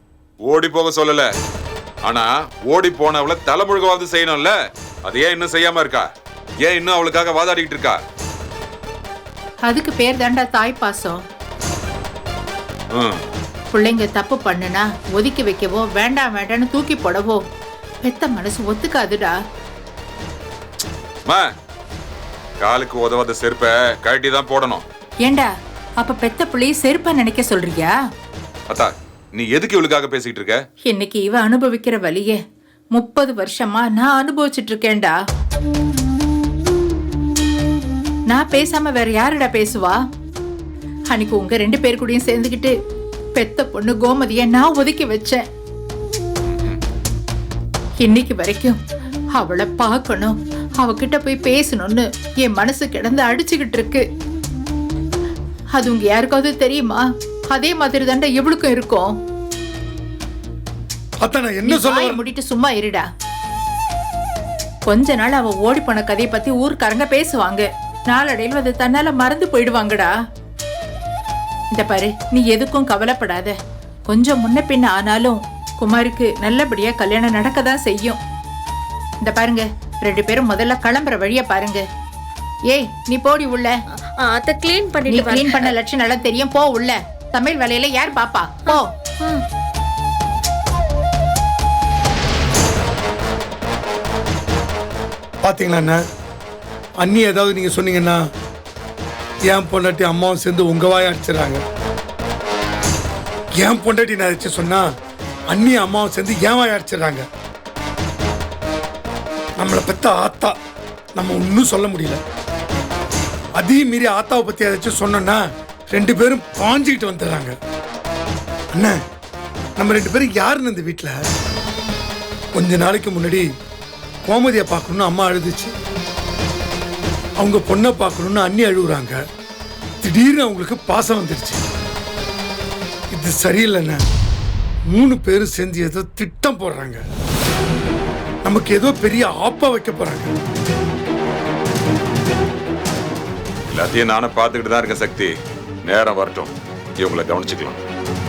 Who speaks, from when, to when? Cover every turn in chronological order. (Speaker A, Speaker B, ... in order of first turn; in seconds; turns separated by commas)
Speaker A: 0.5-1.3, Speaker A: 2.0-4.5, Speaker A: 5.0-6.1, Speaker A: 6.6-8.0, Speaker B: 9.7-11.2, Speaker A: 12.9-13.2, Speaker B: 13.7-17.4, Speaker B: 18.0-19.4, Speaker A: 22.6-24.8, Speaker B: 25.2-25.5, Speaker B: 26.0-27.9, Speaker A: 28.7-30.6, Speaker B: 30.9-32.4, Speaker B: 32.9-35.1, Speaker B: 38.3-40.0, Speaker B: 41.1-42.7, Speaker B: 43.4-45.4, Speaker A: 46.5-46.8, Speaker B: 48.0-48.8, Speaker B: 49.4-54.0, Speaker B: 55.7-59.1, Speaker C: 61.2-62.2, Speaker B: 61.7-63.1, Speaker B: 64.9-70.1, Speaker B: 71.7-73.6, Speaker B: 74.1-78.2, Speaker B: 79.2-81.8, Speaker B: 82.7-83.7, Speaker D: 84.2-85.7, Speaker B: 85.1-88.9, Speaker D: 88.7-89.4, Speaker C: 95.4-96.0, Speaker C: 97.0-98.2, Speaker C: 99.5-101.6, Speaker C: 103.6-104.8, Speaker C: 105.5-107.2, Speaker C: 109.6-110.6, Speaker C: 111.2-112.2, Speaker C: 113.6-117.5, Speaker C: 119.8-121.2, Speaker C: 122.5-123.5, Speaker C: 124.2-125.7, Speaker C: 127.4-129.2, Speaker C: 130.0-131.6, Speaker C: 133.1-134.0, Speaker C: 134.9-137.0, Speaker C: 138.4-140.3, Speaker A: 143.7-145.3, Speaker A: 145.9-147.8